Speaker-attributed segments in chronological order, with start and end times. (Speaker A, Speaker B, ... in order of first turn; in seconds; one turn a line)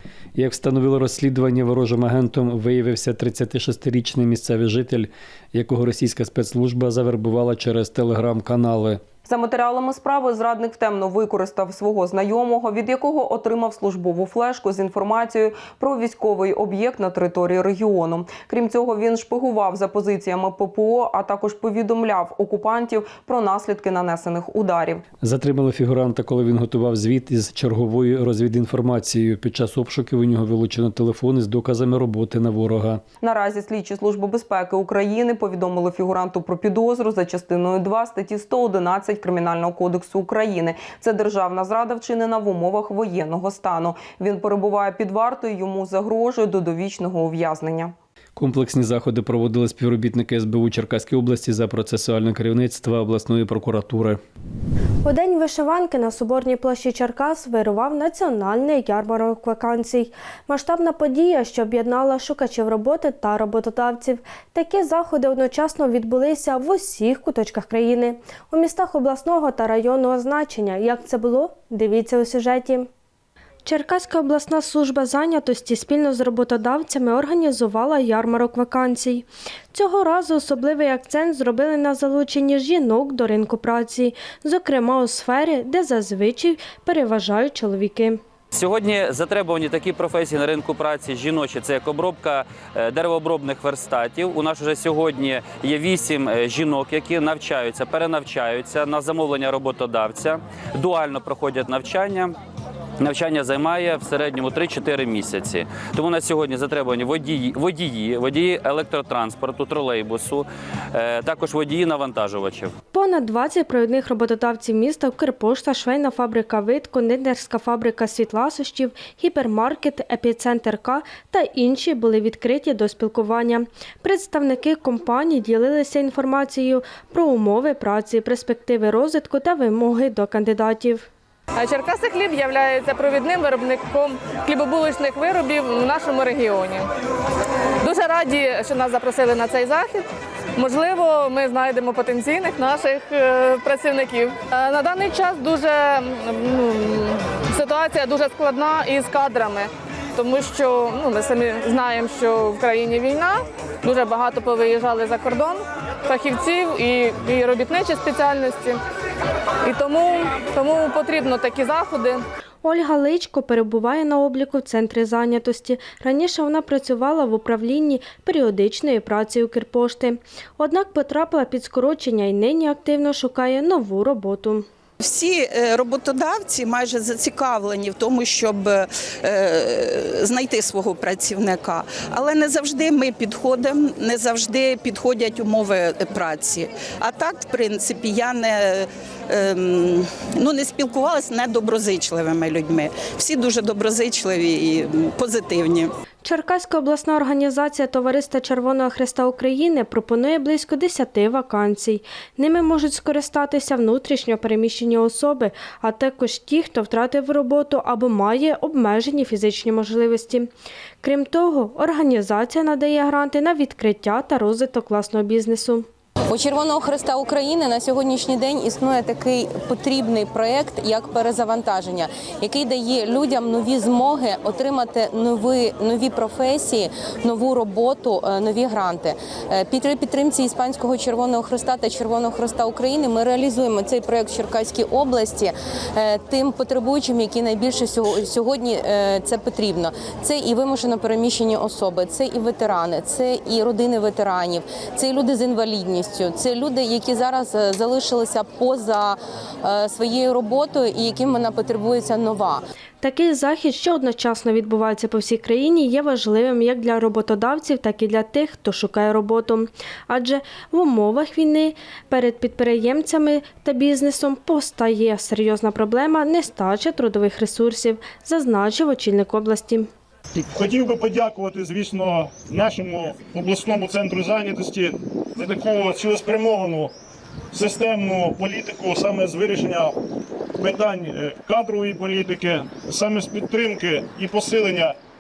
Speaker A: 0.4-9.0
Speaker B: 9.3-25.0
Speaker A: 25.2-33.0
Speaker B: 33.2-47.9
Speaker A: 48.4-54.2
Speaker C: 55.0-72.9
Speaker C: 73.7-88.2
Speaker D: 88.5-102.3
Speaker D: 103.0-112.7
Speaker C: 112.9-131.1
Speaker E: 131.6-136.9
Speaker E: 137.8-140.1
Speaker E: 140.6-149.7
Speaker E: 150.2-155.6
Speaker E: 156.1-158.8
Speaker E: 159.7-162.2
Speaker C: 162.6-174.7
Speaker F: 175.0-195.9
Speaker C: 196.2-210.5
Speaker C: 211.0-215.9
Speaker G: 216.3-252.6
Speaker C: 253.0-269.9
Speaker H: 270.6-276.9
Speaker H: 277.5-279.9
Speaker H: 280.6-284.9